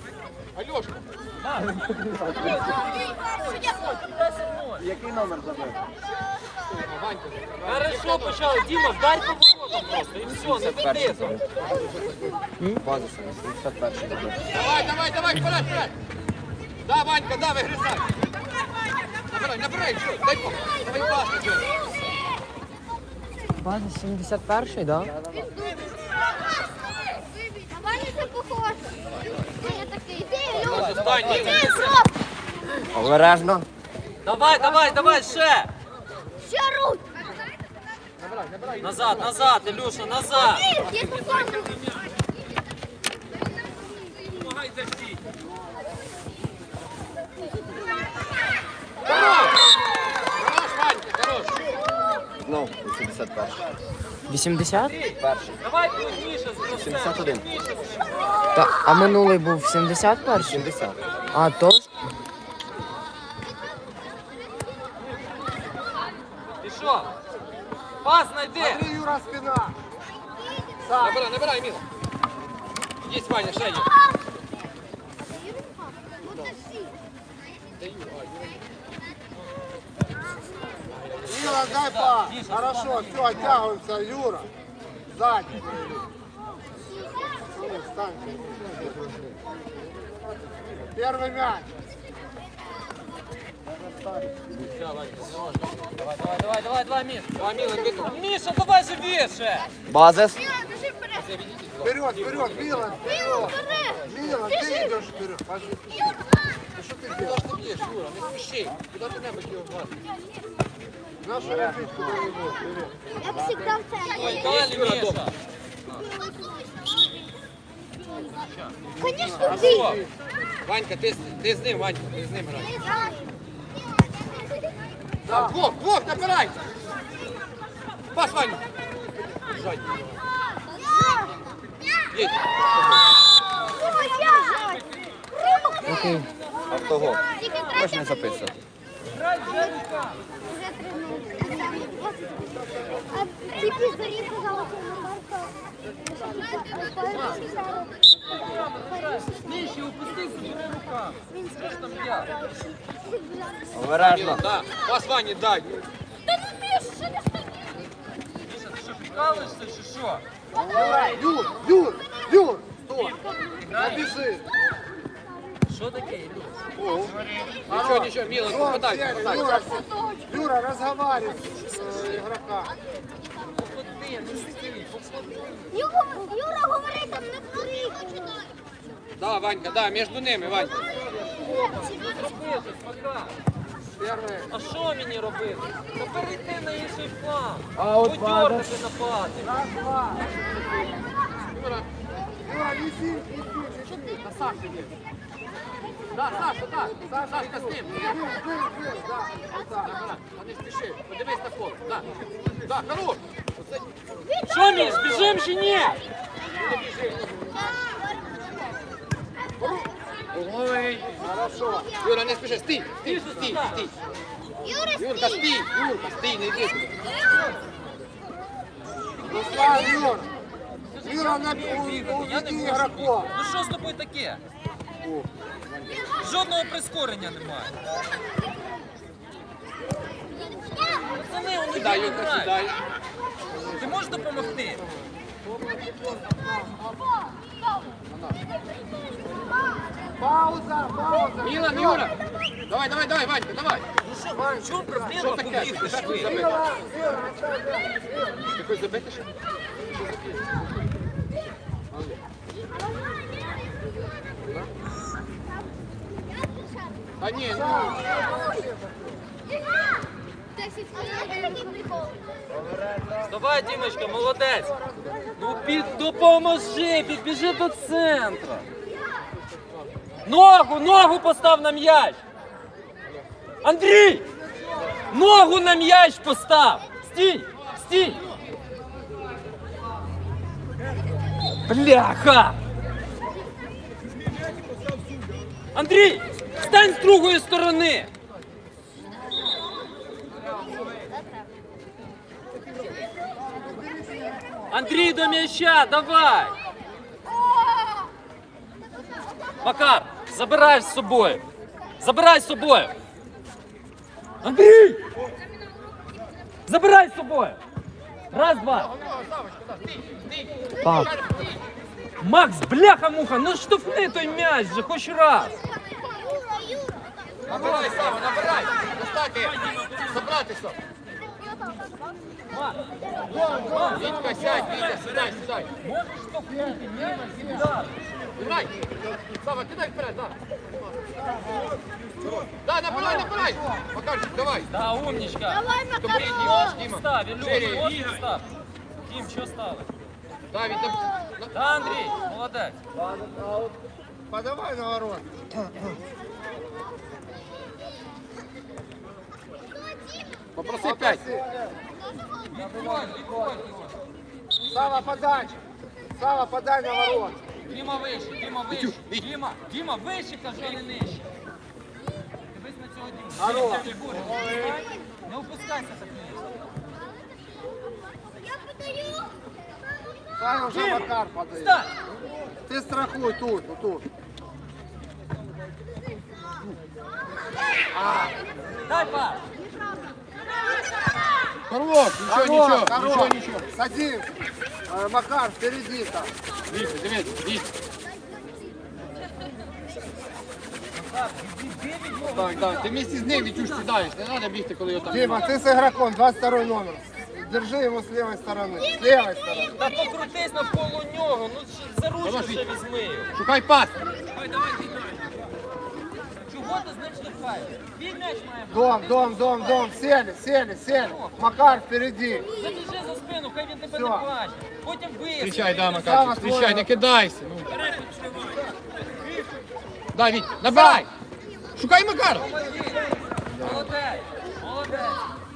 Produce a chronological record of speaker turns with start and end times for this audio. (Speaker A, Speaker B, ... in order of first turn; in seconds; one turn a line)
Speaker A: 0.5-1.1
Speaker B: 1.4-4.9
Speaker C: 4.8-5.8
Speaker A: 6.7-8.3
Speaker B: 7.6-11.4
Speaker A: 11.3-12.1
Speaker D: 12.6-12.9
Speaker C: 12.8-14.3
Speaker A: 14.5-15.9
Speaker A: 16.8-18.0
Speaker A: 19.3-21.7
Speaker D: 23.6-25.1
Speaker E: 27.7-30.6
Speaker A: 30.5-31.7
Speaker B: 30.6-32.0
Speaker E: 31.7-32.0
Speaker D: 32.9-33.6
Speaker B: 34.2-35.7
Speaker E: 36.5-37.0
Speaker A: 38.2-39.3
Speaker B: 38.8-40.7
Speaker E: 40.7-41.6
Speaker A: 40.9-41.7
Speaker A: 49.0-49.6
Speaker A: 50.4-51.6
Speaker C: 52.4-53.6
Speaker D: 54.3-55.0
Speaker B: 54.7-58.3
Speaker C: 55.2-55.5
Speaker C: 56.8-57.4
Speaker D: 58.5-60.8
Speaker C: 60.4-60.9
Speaker D: 61.3-61.9
Speaker B: 66.6-67.1
Speaker B: 68.0-68.8
Speaker F: 68.6-69.8
Speaker F: 70.8-71.2
Speaker A: 71.0-71.8
Speaker A: 73.0-73.9
Speaker A: 77.8-78.2
Speaker F: 81.2-84.5
Speaker B: 81.8-83.6
Speaker F: 85.1-85.8
Speaker F: 87.5-89.0
Speaker F: 90.8-91.7
Speaker A: 95.0-95.4
Speaker B: 96.1-97.3
Speaker A: 97.4-98.1
Speaker B: 98.0-99.7
Speaker D: 99.9-100.2
Speaker C: 99.9-100.4
Speaker A: 101.2-103.5
Speaker F: 101.8-106.2
Speaker F: 106.7-107.4
Speaker A: 107.1-109.9
Speaker F: 111.2-112.9
Speaker E: 113.2-114.1
Speaker B: 114.1-115.3
Speaker A: 114.1-115.2
Speaker E: 116.0-117.0
Speaker F: 119.1-120.0
Speaker A: 119.3-120.0
Speaker A: 120.6-123.0
Speaker A: 125.2-126.6
Speaker A: 128.1-128.6
Speaker A: 129.5-130.0
Speaker A: 132.1-132.4
Speaker E: 133.9-134.8
Speaker D: 135.9-136.3
Speaker C: 136.7-137.2
Speaker E: 137.4-138.2
Speaker C: 137.7-138.5
Speaker B: 139.1-140.2
Speaker E: 140.4-142.3
Speaker E: 143.0-148.0
Speaker B: 147.1-147.4
Speaker B: 148.4-152.3
Speaker E: 152.9-153.8
Speaker D: 153.8-154.3
Speaker A: 153.9-155.8
Speaker E: 156.6-157.1
Speaker B: 158.4-160.2
Speaker F: 160.5-163.2
Speaker B: 163.6-164.1
Speaker F: 163.8-164.4
Speaker B: 165.7-166.6
Speaker A: 166.8-167.1
Speaker B: 167.2-167.5
Speaker A: 167.7-169.6
Speaker F: 167.7-172.7
Speaker E: 169.6-170.4
Speaker B: 173.5-175.6
Speaker E: 175.7-178.5
Speaker A: 179.2-180.8
Speaker B: 181.2-183.3
Speaker F: 183.9-184.5
Speaker B: 184.5-189.5
Speaker C: 187.8-188.6
Speaker F: 189.4-190.3
Speaker A: 191.5-191.9
Speaker F: 192.4-194.2
Speaker A: 194.2-194.9
Speaker A: 196.1-198.2
Speaker F: 197.1-199.9
Speaker A: 199.7-203.8
Speaker B: 204.5-206.0
Speaker A: 204.8-205.3
Speaker A: 206.6-207.6
Speaker A: 209.6-211.2
Speaker F: 211.2-211.9
Speaker A: 212.0-213.9
Speaker B: 213.0-213.8
Speaker A: 214.8-217.1
Speaker F: 219.2-220.3
Speaker B: 220.9-224.4
Speaker F: 221.0-223.3
Speaker B: 226.2-227.8
Speaker B: 231.0-232.5
Speaker A: 231.7-232.8
Speaker F: 233.5-234.9
Speaker B: 233.8-234.8
Speaker F: 235.6-236.8
Speaker A: 238.1-238.4
Speaker F: 240.2-242.1
Speaker A: 241.4-242.2
Speaker A: 242.7-243.8
Speaker B: 244.1-246.3
Speaker A: 245.2-246.7
Speaker F: 246.2-248.4
Speaker A: 248.5-249.3
Speaker A: 249.9-250.5
Speaker A: 257.2-258.1
Speaker F: 257.6-259.2
Speaker E: 260.8-262.0
Speaker C: 262.7-263.1
Speaker B: 263.2-264.7
Speaker B: 265.4-268.7
Speaker B: 270.2-272.2
Speaker B: 273.6-274.2
Speaker B: 275.1-278.2
Speaker B: 281.6-282.6
Speaker B: 285.7-288.1
Speaker F: 293.6-294.4
Speaker B: 294.7-296.5
Speaker B: 299.6-301.4
Speaker B: 302.0-302.9
Speaker B: 304.4-305.0
Speaker B: 306.6-307.6
Speaker B: 308.3-308.9
Speaker A: 308.7-311.6
Speaker D: 310.8-311.1
Speaker B: 312.2-315.6
Speaker A: 317.5-320.8
Speaker B: 322.5-325.0
Speaker F: 323.2-324.7
Speaker A: 323.9-325.7
Speaker B: 325.8-327.9
Speaker F: 326.7-327.7
Speaker A: 328.4-328.7
Speaker A: 329.3-330.4
Speaker F: 331.2-331.7
Speaker A: 332.2-334.7
Speaker F: 332.9-333.8
Speaker B: 334.7-338.4
Speaker A: 335.9-338.0
Speaker B: 339.0-339.9
Speaker A: 340.5-341.5
Speaker B: 341.5-342.8
Speaker F: 343.0-343.7
Speaker F: 344.3-345.9
Speaker A: 350.5-351.2
Speaker F: 350.8-351.6
Speaker B: 352.5-354.0
Speaker F: 354.7-355.6
Speaker F: 356.1-357.4
Speaker B: 357.7-361.3
Speaker A: 358.7-359.2
Speaker B: 362.5-366.7
Speaker F: 363.4-364.7
Speaker F: 370.4-371.8
Speaker B: 370.8-371.0
Speaker B: 371.6-371.9
Speaker F: 372.6-374.0
Speaker B: 378.9-379.4
Speaker A: 381.7-383.7
Speaker F: 382.3-384.3
Speaker F: 384.9-386.3
Speaker A: 386.7-387.7
Speaker B: 390.9-392.9
Speaker A: 392.3-395.6
Speaker F: 395.1-399.8
Speaker B: 399.8-403.3
Speaker A: 402.2-402.6
Speaker A: 403.3-403.9
Speaker B: 404.5-404.9
Speaker B: 406.4-409.8
Speaker F: 408.7-412.5
Speaker B: 411.1-411.3
Speaker B: 412.6-415.6
Speaker F: 413.9-414.2
Speaker A: 415.4-417.7
Speaker F: 415.9-416.9
Speaker A: 420.1-421.1
Speaker F: 420.6-421.0
Speaker A: 421.8-422.5
Speaker B: 422.4-425.2
Speaker A: 423.6-423.9